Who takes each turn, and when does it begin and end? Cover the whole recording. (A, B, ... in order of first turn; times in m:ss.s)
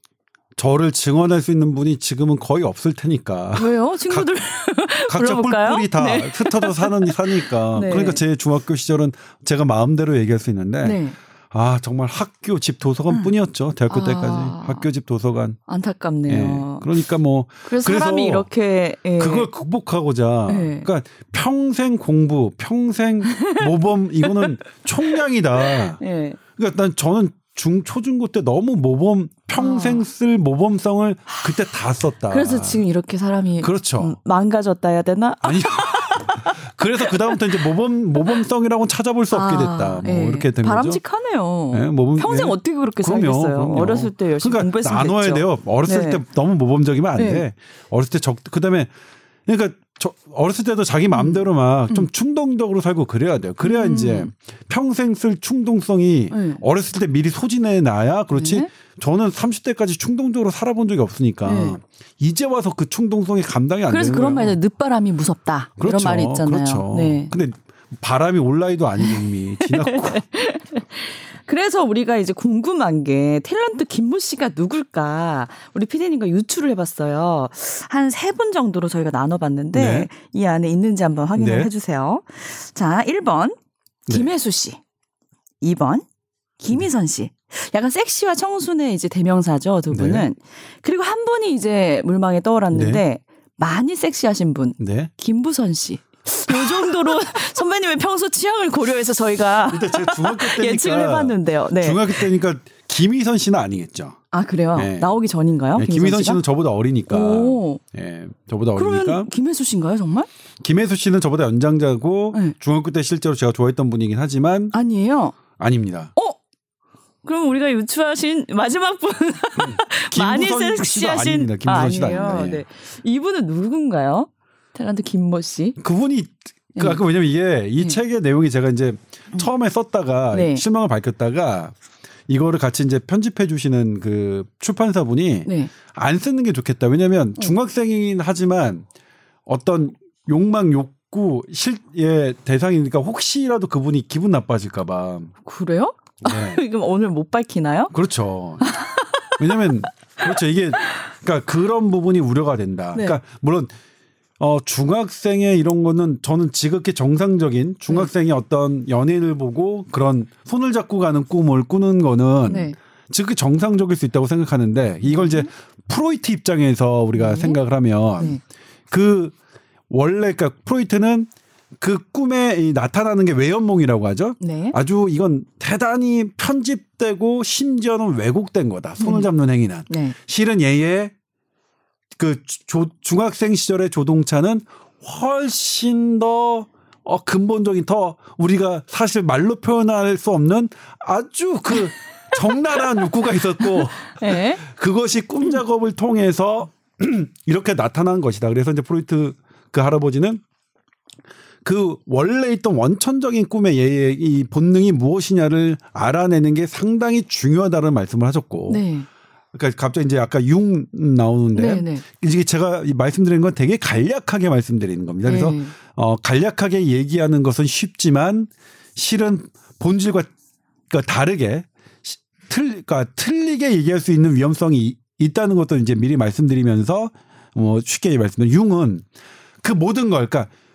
0:00.6-0:04.3 A
0:03.6-0:08.2 B
0:05.1-0:15.6 A
0:10.8-0:11.2 B
0:13.9-0:14.8 B
0:15.7-0:16.9 B
0:16.3-0:18.5 A
0:17.6-0:19.5 B
0:19.2-0:26.0 A
0:20.5-0:20.9 B
0:23.3-0:23.7 B
0:25.6-0:26.4 B
0:26.6-0:32.8 A
0:29.6-0:30.0 B
0:32.3-0:37.4 B
0:33.6-0:34.2 A
0:35.4-0:41.0 A
0:39.3-0:46.2 B
0:41.7-0:48.9 A
0:47.2-0:47.4 B
0:49.5-1:04.6 A
0:51.1-0:52.1 B
0:53.6-0:54.3 B
0:56.3-0:56.6 B
0:58.3-0:58.7 B
1:01.4-1:01.8 B
1:03.9-1:07.3 B
1:05.8-1:10.3 A
1:09.0-1:23.6 B
1:19.7-1:20.1 A
1:21.4-1:21.7 A
1:24.1-1:24.8 B
1:25.6-1:26.1 B
1:26.6-1:42.3 B
1:29.9-1:30.3 A
1:32.7-1:33.0 A
1:34.8-1:35.1 A
1:36.5-1:37.0 A
1:39.7-1:44.2 A
1:44.3-1:46.4 B
1:44.8-1:45.1 A
1:45.8-1:49.3 A
1:47.1-1:47.8 B
1:48.8-1:50.3 B
1:50.6-1:54.7 A
1:54.7-1:55.4 B
1:55.6-1:56.1 A
1:57.2-2:05.8 B
1:59.6-2:02.6 A
2:05.8-2:11.8 A
2:06.8-2:07.0 B
2:10.3-2:10.6 B
2:12.3-2:18.9 A
2:15.5-2:15.7 B
2:19.5-2:25.3 A
2:25.4-2:27.9 B
2:26.2-2:26.6 A
2:27.9-2:28.7 A
2:28.6-2:29.3 B
2:29.4-2:33.7 A
2:32.9-2:33.2 B
2:34.4-2:48.4 A
2:42.5-2:42.8 B
2:45.0-2:45.5 B
2:47.1-2:47.6 B
2:48.9-2:49.4 A
2:49.9-3:01.1 A
2:54.4-2:54.8 B
2:59.0-2:59.3 B
2:59.9-3:00.2 B
3:02.2-3:20.4 A
3:13.6-3:14.6 B
3:21.6-3:28.8 A
3:28.7-3:29.1 B
3:29.5-3:40.3 A
3:31.5-3:32.0 B
3:35.2-3:35.8 B
3:40.9-3:49.0 A
3:49.6-3:50.5 A